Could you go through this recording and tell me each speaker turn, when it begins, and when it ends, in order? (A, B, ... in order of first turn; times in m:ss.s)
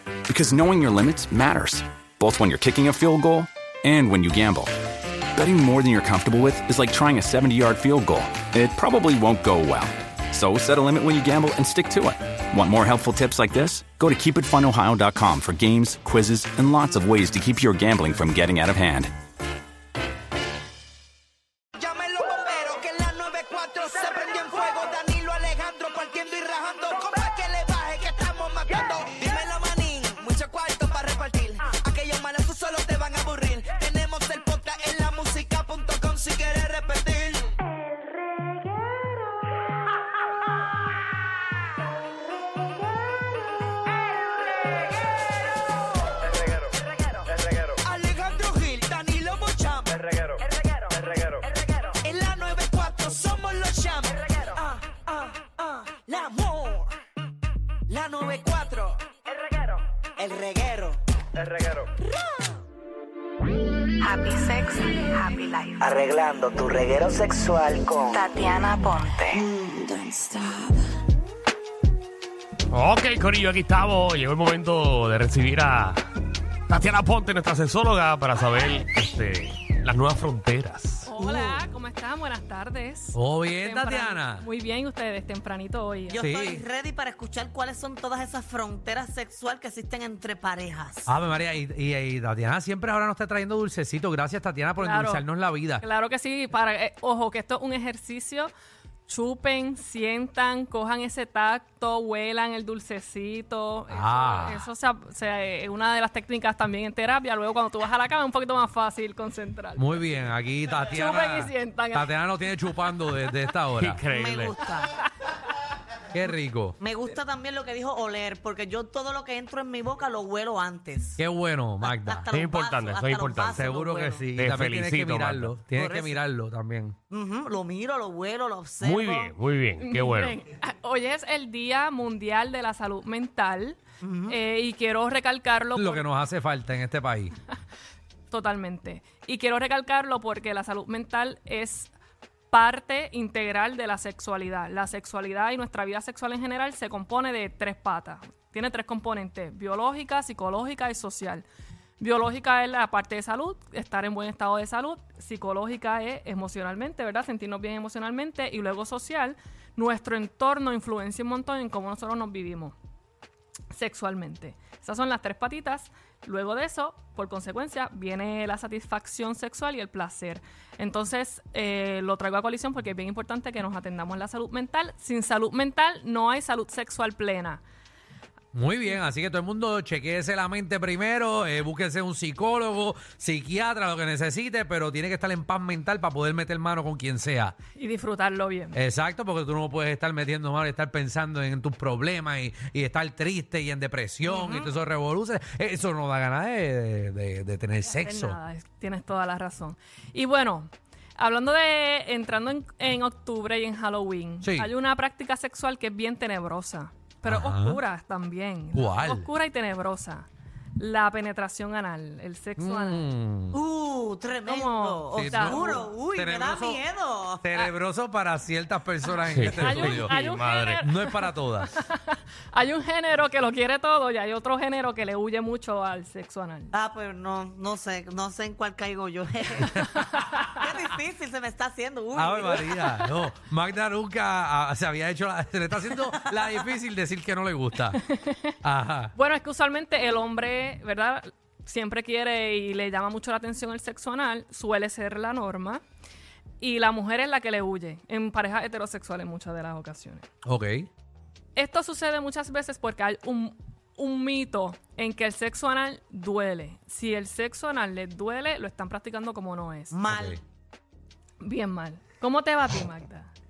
0:00.3-0:04.7 A
0:05.3-0:19.1 A
0:21.8-0:37.5 B
0:47.8-0:50.0 B
0:52.0-0:56.9 B
0:57.9-0:59.0 B
1:00.2-1:01.0 B
1:04.0-1:05.8 C
1:08.1-1:09.4 C
1:12.7-1:16.0 D
1:16.7-1:21.1 D
1:21.0-1:26.2 E
1:21.2-1:21.6 F
1:23.1-1:24.4 G
1:26.1-1:31.0 F
1:26.2-1:26.6 G
1:31.0-1:35.8 G
1:34.8-1:35.2 E
1:35.8-1:38.5 E
1:39.1-1:49.9 E
1:43.9-1:44.7 G
1:49.8-1:54.0 G
1:50.9-1:52.1 E
1:53.8-1:54.6 D
1:54.1-1:54.9 F
1:56.1-1:56.8 G
1:56.8-2:01.2 F
2:01.2-2:02.2 G
2:01.8-2:04.3 F
2:02.3-2:03.6 D
2:03.5-2:07.0 G
2:04.3-2:05.5 D
2:05.7-2:06.2 F
2:07.1-2:09.3 F
2:08.8-2:10.3 D
2:09.8-2:16.0 E
2:14.0-2:14.4 F
2:15.7-2:17.3 G
2:18.3-2:21.9 E
2:22.5-2:31.4 E
2:32.0-2:42.7 E
2:43.7-2:57.6 E
2:58.5-3:07.5 G
3:07.7-3:08.8 E
3:08.7-3:18.4 G
3:14.3-3:14.7 F
3:18.0-3:33.1 E
3:24.4-3:24.7 G
3:27.2-3:27.8 G
3:28.7-3:29.3 G
3:32.6-3:33.6 G
3:33.5-3:37.6 F
3:34.4-3:35.8 E
3:35.1-3:36.8 G
3:37.4-3:40.2 G
3:39.3-3:40.8 D
3:39.5-3:46.7 E
3:40.8-3:41.8 G
3:46.7-3:53.0 F
3:50.1-3:50.4 E
3:52.1-3:58.0 G
3:58.0-3:58.5 E
3:58.6-3:59.1 G
3:59.1-4:05.8 E
4:06.6-4:10.2 E
4:10.4-4:10.9 G
4:11.6-4:19.9 E
4:19.9-4:20.4 F
4:20.1-4:20.4 G
4:21.4-4:23.3 E